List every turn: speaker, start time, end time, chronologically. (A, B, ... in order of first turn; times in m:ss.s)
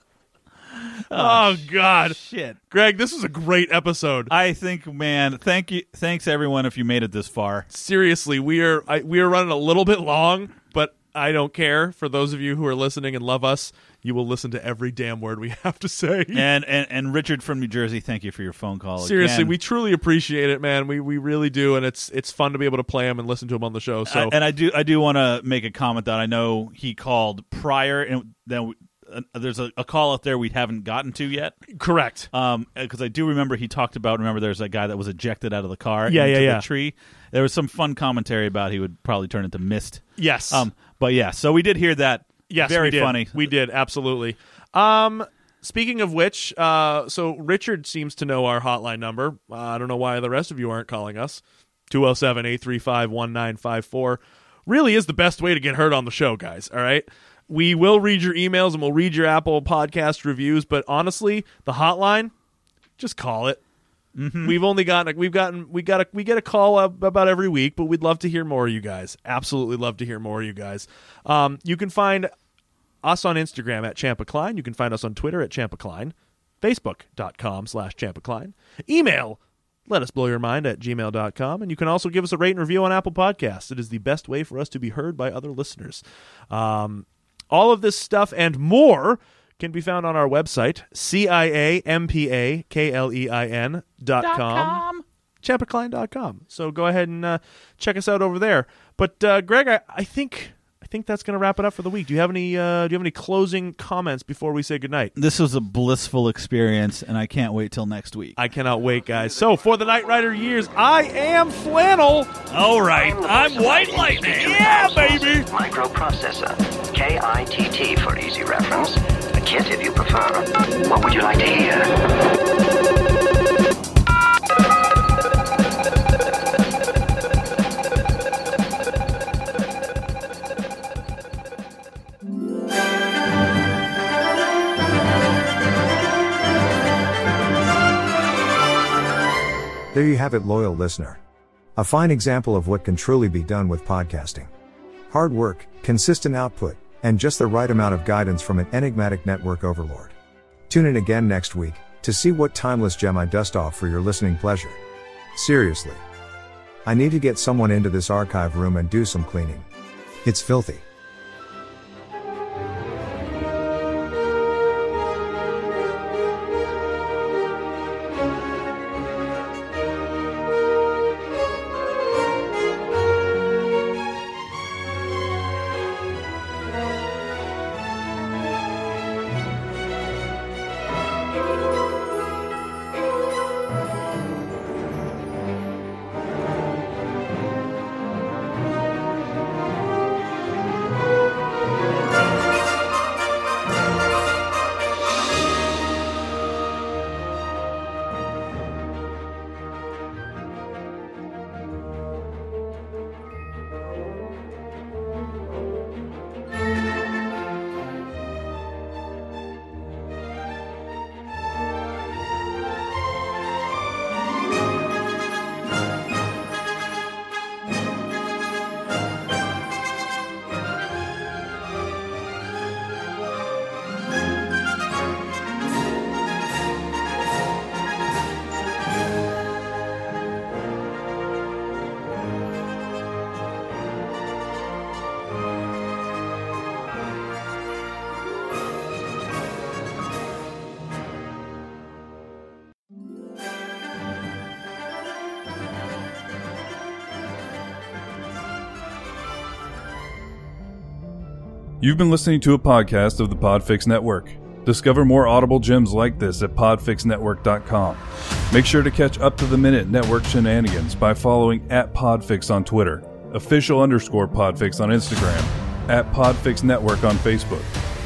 0:01.1-0:02.6 A
0:01.1-0:04.3 B
0:04.3-0:07.7 A
0:07.7-0:16.5 B
0:16.3-0:19.6 A
0:19.0-0:24.3 B
0:24.0-0:31.6 A
0:31.7-0:32.3 B
0:32.3-0:43.5 A
0:36.1-0:36.6 B
0:40.2-0:40.7 B
0:42.5-1:02.3 B
1:03.0-1:03.6 B
1:04.2-1:04.6 A
1:04.4-1:12.3 B
1:13.0-1:34.8 B
1:34.2-1:35.0 A
1:35.4-1:45.1 B
1:45.2-1:48.4 A
1:48.4-1:52.3 B
1:52.5-1:55.4 A
1:52.8-2:02.0 C
2:19.9-2:21.2 D
2:21.8-2:24.5 D
2:25.1-2:30.1 D
2:30.7-2:34.8 D
2:35.3-2:36.0 D
2:36.8-2:39.7 D
2:40.2-2:40.8 D
4:11.8-4:27.7 E